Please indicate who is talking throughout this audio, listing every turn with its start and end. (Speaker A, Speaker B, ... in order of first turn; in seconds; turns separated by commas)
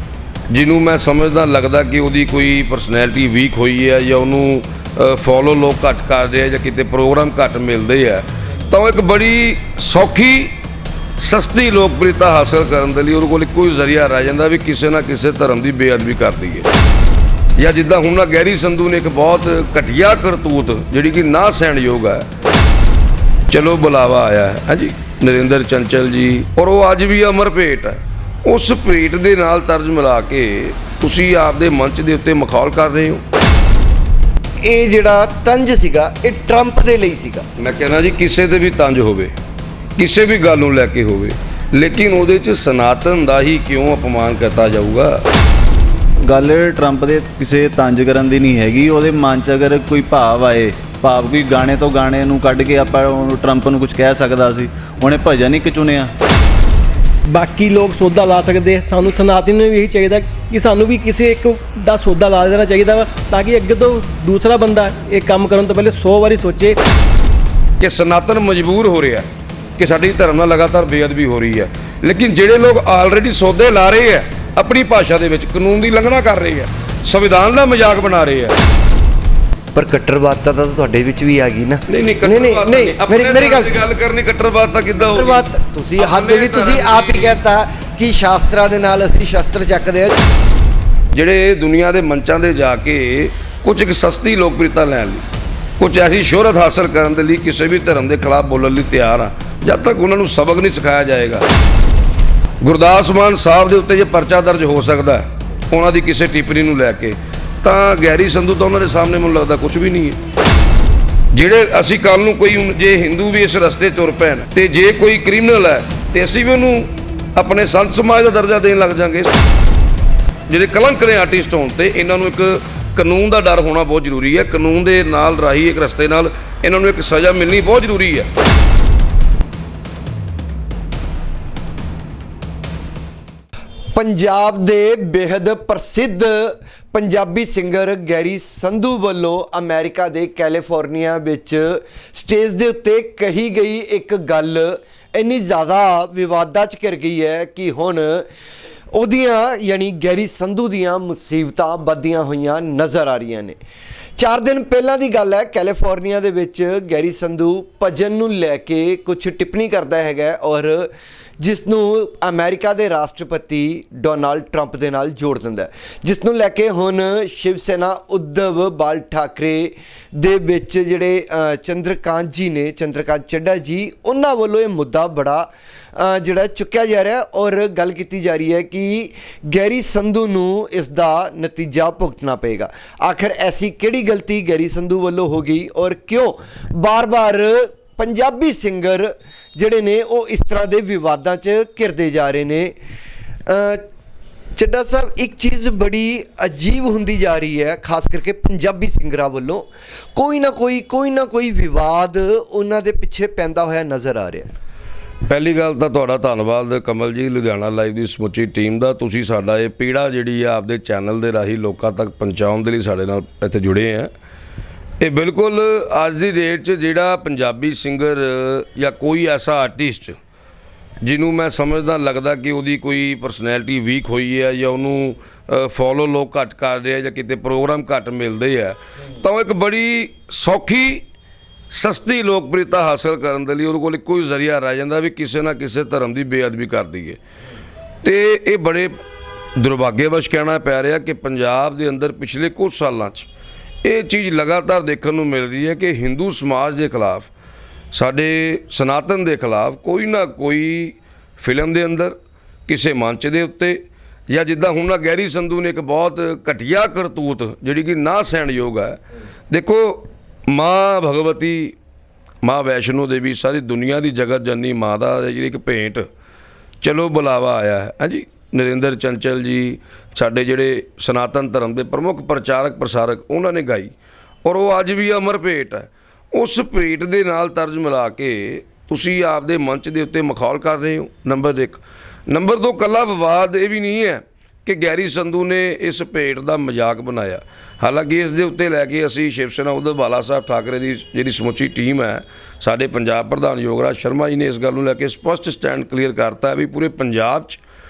Speaker A: 0.5-10.6, Speaker A: 11.2-16.7, Speaker A: 17.6-22.3, Speaker A: 23.5-33.2, Speaker B: 34.6-37.5, Speaker A: 37.6-39.3, Speaker A: 40.0-45.2, Speaker C: 46.2-56.1, Speaker D: 57.3-66.8, Speaker A: 67.8-69.3, Speaker A: 69.8-78.5, Speaker B: 79.7-83.8, Speaker A: 81.9-85.5, Speaker B: 85.1-90.2, Speaker A: 86.0-87.4, Speaker A: 91.1-95.2, Speaker A: 95.8-101.5, Speaker A: 102.6-110.2, Speaker A: 111.3-119.3, Speaker A: 120.5-128.3, Speaker B: 133.9-148.3, Speaker B: 148.9-153.6, Speaker B: 154.2-192.8, Speaker B: 193.5-193.9, Speaker B: 194.6-204.5, Speaker A: 205.3-214.1, Speaker A: 215.0-220.2, Speaker A: 221.0-231.0, Speaker A: 231.7-237.2, Speaker A: 238.0-239.0, Speaker A: 239.6-243.3, Speaker A: 243.8-247.3, Speaker A: 247.9-252.2, Speaker A: 252.7-261.8, Speaker A: 262.4-266.1, Speaker A: 266.8-273.9, Speaker A: 274.4-297.6